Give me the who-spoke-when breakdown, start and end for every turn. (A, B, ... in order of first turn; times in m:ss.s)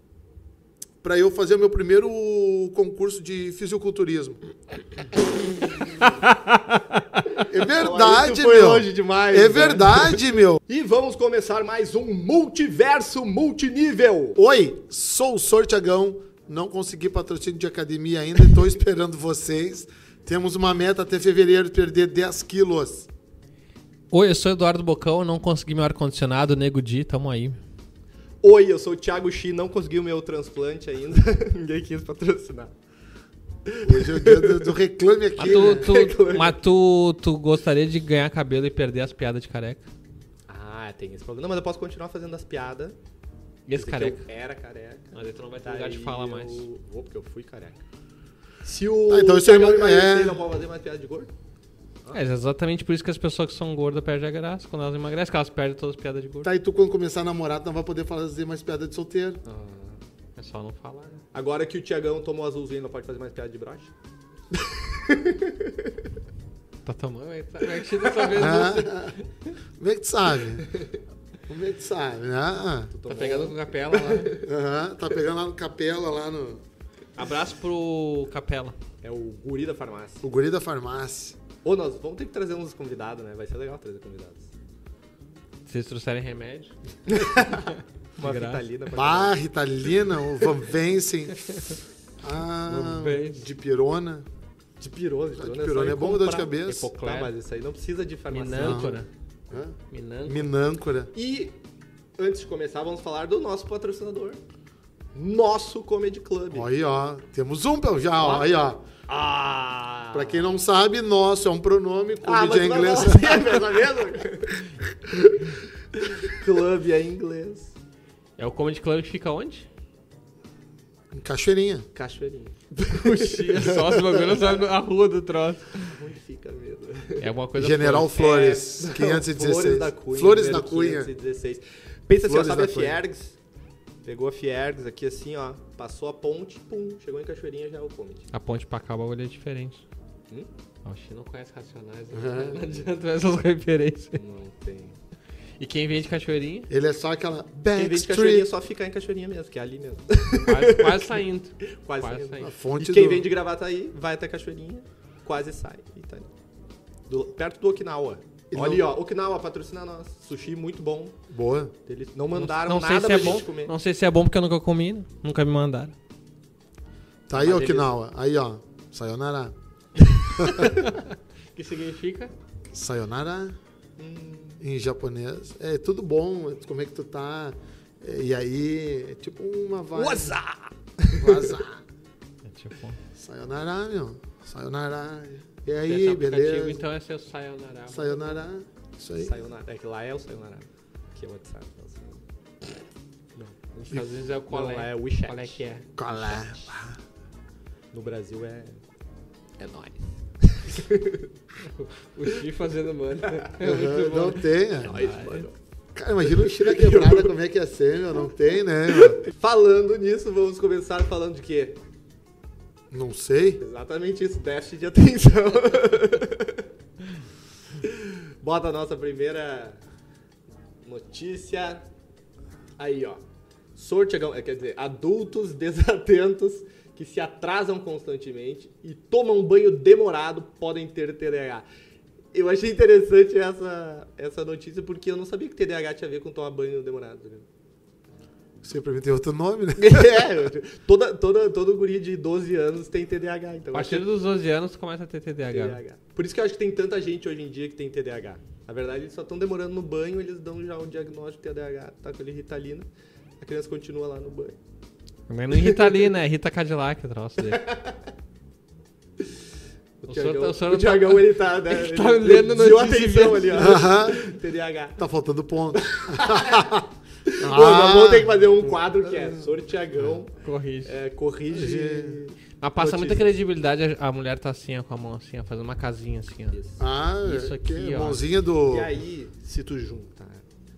0:01.0-0:04.4 A
0:06.0-0:07.3 B
0:07.4-0:10.6 A
0:07.7-0:14.4 C
0:14.3-0:23.1 A
0:24.1-0:27.6 B
0:28.4-0:32.7 C
0:33.6-0:34.8 C
0:33.8-0:35.9 A
0:35.4-0:36.6 C
0:35.4-0:39.9 B
0:40.5-0:43.0 C
0:43.6-0:44.3 B
0:43.7-0:47.8 C
0:45.1-0:46.7 B
0:48.6-0:51.3 C
0:49.1-0:50.4 A
0:52.1-0:56.5 B
0:56.4-0:59.4 A
0:59.4-1:00.0 C
1:00.4-1:01.2 B
1:01.3-1:03.9 C
1:04.5-1:06.1 C
1:06.8-1:09.5 B
1:07.8-1:08.4 C
1:08.3-1:09.2 A
1:09.8-1:10.7 A
1:10.7-1:11.0 C
1:11.5-1:12.9 A
1:12.9-1:14.5 C
1:13.0-1:14.4 B
1:14.3-1:16.6 A
1:17.2-1:18.8 B
1:19.0-1:20.2 C
1:20.2-1:21.4 A
1:21.6-1:24.5 C
1:25.7-1:26.7 B
1:27.1-1:27.4 C
1:27.3-1:28.6 B
1:28.2-1:29.4 C
1:28.9-1:31.5 A
1:31.4-1:31.8 B
1:32.2-1:34.2 A
1:32.7-1:33.4 B
1:34.8-1:39.0 C
1:35.4-1:36.9 A
1:36.4-1:37.3 B
1:38.3-1:39.1 B
1:38.5-1:39.0 A
1:39.5-1:41.1 A
1:39.9-1:40.5 B
1:41.1-1:41.6 C
1:42.2-1:44.4 C
1:45.1-1:46.7 C
1:46.5-1:48.8 A
1:48.2-1:48.5 C
1:49.1-1:50.6 C
1:50.1-1:53.7 A
1:52.2-1:54.7 C
1:55.1-1:55.4 A
1:55.9-1:57.7 C
1:58.4-1:59.7 B
2:01.1-2:01.9 A
2:01.9-2:03.6 C
2:02.8-2:06.0 B
2:03.7-2:04.1 A
2:05.8-2:07.3 C
2:07.2-2:08.3 B
2:07.6-2:11.1 A
2:08.1-2:13.4 C
2:12.2-2:13.0 A
2:14.0-2:18.2 C
2:18.3-2:19.8 B
2:20.8-2:24.2 B
2:22.1-2:22.6 A
2:24.1-2:25.0 C
2:25.6-2:26.7 B
2:26.7-2:28.5 A
2:27.7-2:36.3 C
2:30.4-2:32.5 B
2:32.4-2:33.3 A
2:37.1-2:41.2 C
2:38.5-2:38.9 A
2:41.3-2:41.7 A
2:41.8-2:43.7 C
2:42.3-2:45.9 B
2:47.3-2:49.5 A
2:47.3-2:47.9 B
2:50.4-2:50.8 A
2:50.5-2:52.3 B
2:52.7-2:53.6 A
2:54.0-2:54.6 C
2:54.6-3:00.4 A
2:59.9-3:01.6 C
3:01.2-3:01.8 A
3:02.4-3:03.0 B
3:03.1-3:06.8 A
3:05.8-3:08.4 B
3:07.9-3:09.4 A
3:09.2-3:12.2 C
3:13.6-3:16.6 B
3:14.5-3:15.6 C
3:16.0-3:17.0 A
3:17.9-3:18.8 C
3:19.6-3:19.9 B
3:20.4-3:21.3 C
3:21.6-3:25.5 B
3:23.6-3:24.9 A
3:24.8-3:25.6 C
3:25.9-3:29.2 A
3:26.2-3:27.3 C
3:28.9-3:31.8 C
3:32.9-3:33.6 A
3:33.6-3:36.7 C
3:37.8-3:39.8 C
3:40.8-3:41.8 C
3:42.8-3:43.2 C
3:43.8-3:51.6 C
3:52.3-3:57.4 C
3:58.6-4:00.3 A
3:59.8-4:04.1 C
4:03.7-4:05.8 B
4:05.5-4:12.9 C
4:13.4-4:14.6 C
4:15.3-4:17.6 B
4:15.6-4:15.8 C
4:17.5-4:18.1 C
4:20.0-4:25.0 C
4:20.0-4:23.8 B
4:23.6-4:24.3 A
4:25.0-4:28.5 A
4:25.7-4:30.3 C
4:29.2-4:29.5 A
4:30.4-4:30.9 B
4:30.8-4:33.3 C
4:31.5-4:32.2 A
4:32.6-4:36.6 B
4:36.5-4:36.8 C
4:36.8-4:39.0 A
4:37.2-4:38.2 B
4:38.6-4:40.4 C